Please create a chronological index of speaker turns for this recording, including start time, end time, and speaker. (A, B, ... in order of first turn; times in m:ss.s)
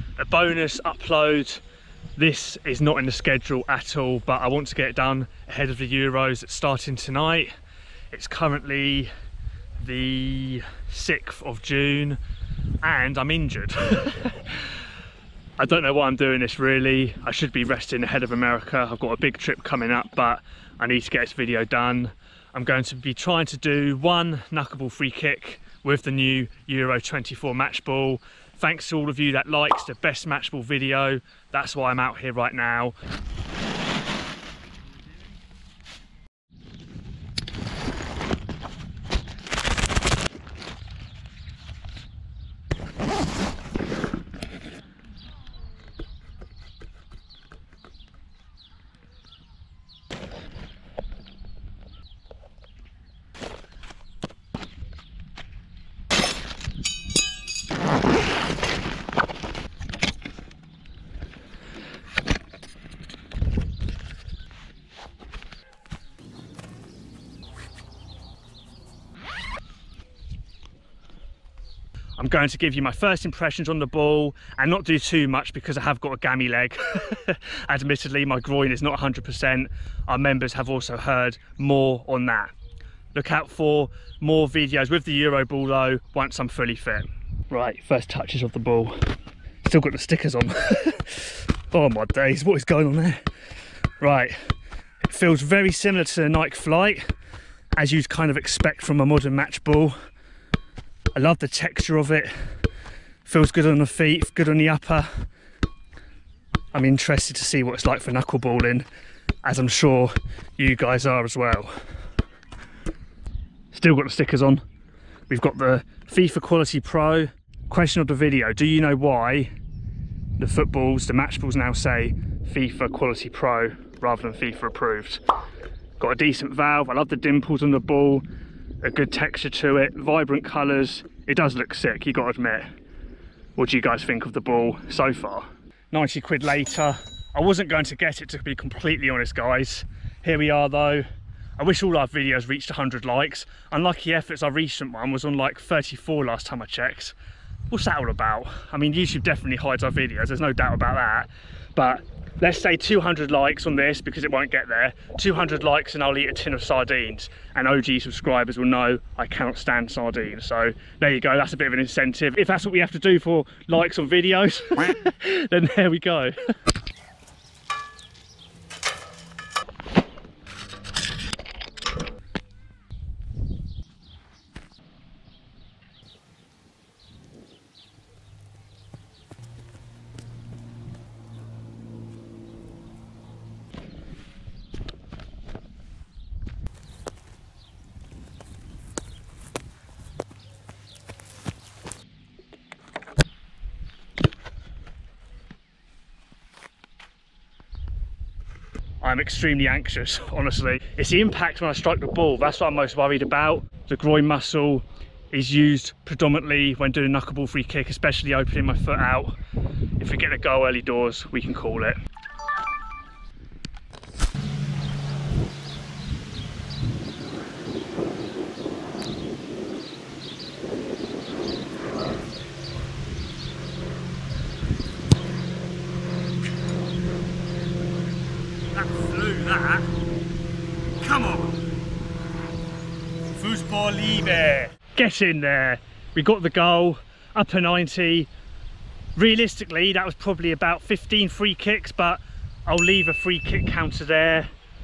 0:00.2-0:01.6 A
0:02.2-0:07.5 A
0:08.1-0:09.1 A
0:09.8-0:12.2 A
0:12.8-0:14.6 A
0:15.6-0:33.0 A
1:12.2-1:22.5 A
1:23.1-1:29.1 A
1:29.6-1:33.2 A
1:34.0-1:34.4 A
1:35.0-1:37.1 A
1:37.8-1:40.0 A
1:41.1-1:42.5 A
1:43.2-1:45.3 A
1:46.7-1:48.9 A
1:49.4-1:51.8 A
1:53.7-1:54.6 A
1:55.3-1:59.5 A
2:00.4-2:05.2 A
2:06.0-2:08.2 A
2:08.8-2:12.7 A
2:13.6-2:21.0 A
2:21.6-2:27.2 A
2:27.7-2:46.4 A
3:19.0-3:29.4 A
3:30.0-3:32.0 A
3:48.7-3:49.9 A
3:51.0-3:51.6 A
3:53.3-3:58.3 A
3:59.2-4:04.5 A